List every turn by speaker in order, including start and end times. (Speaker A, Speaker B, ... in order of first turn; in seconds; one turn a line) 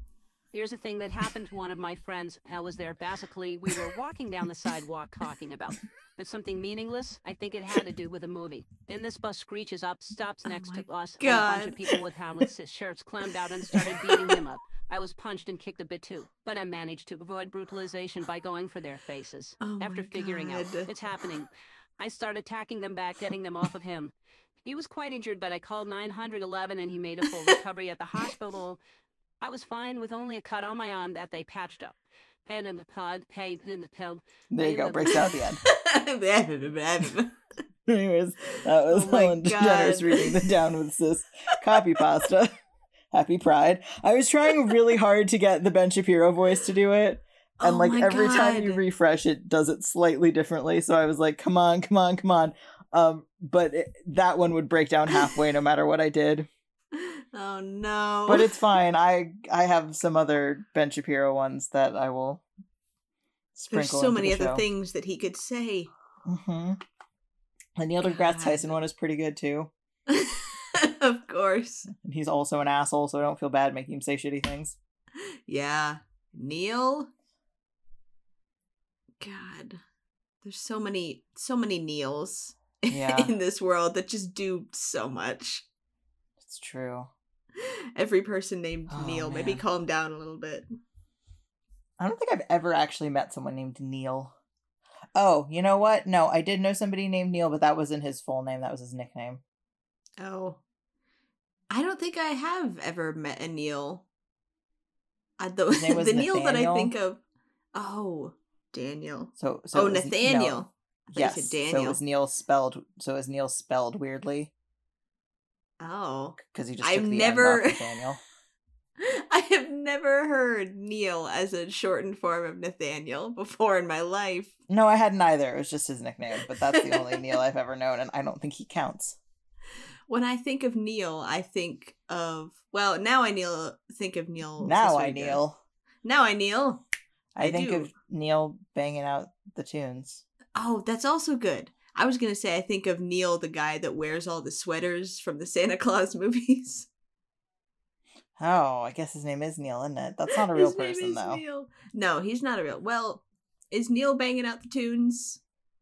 Speaker A: 0.5-24.1
Speaker B: 10.4-11.9
Speaker B: 19.6-20.9
Speaker A: 24.6-28.8
Speaker A: 29.4-35.3
Speaker C: 34.5-35.6
Speaker B: 35.6-37.4
Speaker C: 37.9-42.5
Speaker B: 38.8-40.5
Speaker C: 43.1-56.5
Speaker B: 47.6-48.8
Speaker B: 55.1-55.4
Speaker B: 57.0-58.6
Speaker C: 58.3-62.4
Speaker C: 63.5-64.7
Speaker B: 63.7-65.9
Speaker C: 66.2-66.8
Speaker C: 67.8-69.7
Speaker B: 68.0-68.7
Speaker B: 70.1-71.9
Speaker C: 71.9-74.8
Speaker B: 75.2-77.1
Speaker B: 79.2-79.8
Speaker B: 80.4-85.6
Speaker C: 82.9-83.3
Speaker C: 86.4-87.1
Speaker B: 87.6-90.7
Speaker C: 88.9-89.6
Speaker C: 92.0-94.3
Speaker C: 95.2-99.4
Speaker B: 100.2-100.6
Speaker B: 101.7-104.0
Speaker B: 105.4-107.2
Speaker C: 105.7-107.0
Speaker B: 107.8-112.0
Speaker C: 109.4-114.5
Speaker B: 115.8-118.0
Speaker C: 116.4-118.2
Speaker B: 119.0-124.5
Speaker C: 124.7-129.2
Speaker B: 126.7-127.3
Speaker B: 130.1-135.4
Speaker C: 134.6-135.6
Speaker B: 136.0-136.8
Speaker C: 137.3-140.2
Speaker B: 137.4-137.9
Speaker B: 140.6-146.9
Speaker C: 148.4-151.4
Speaker B: 150.3-155.4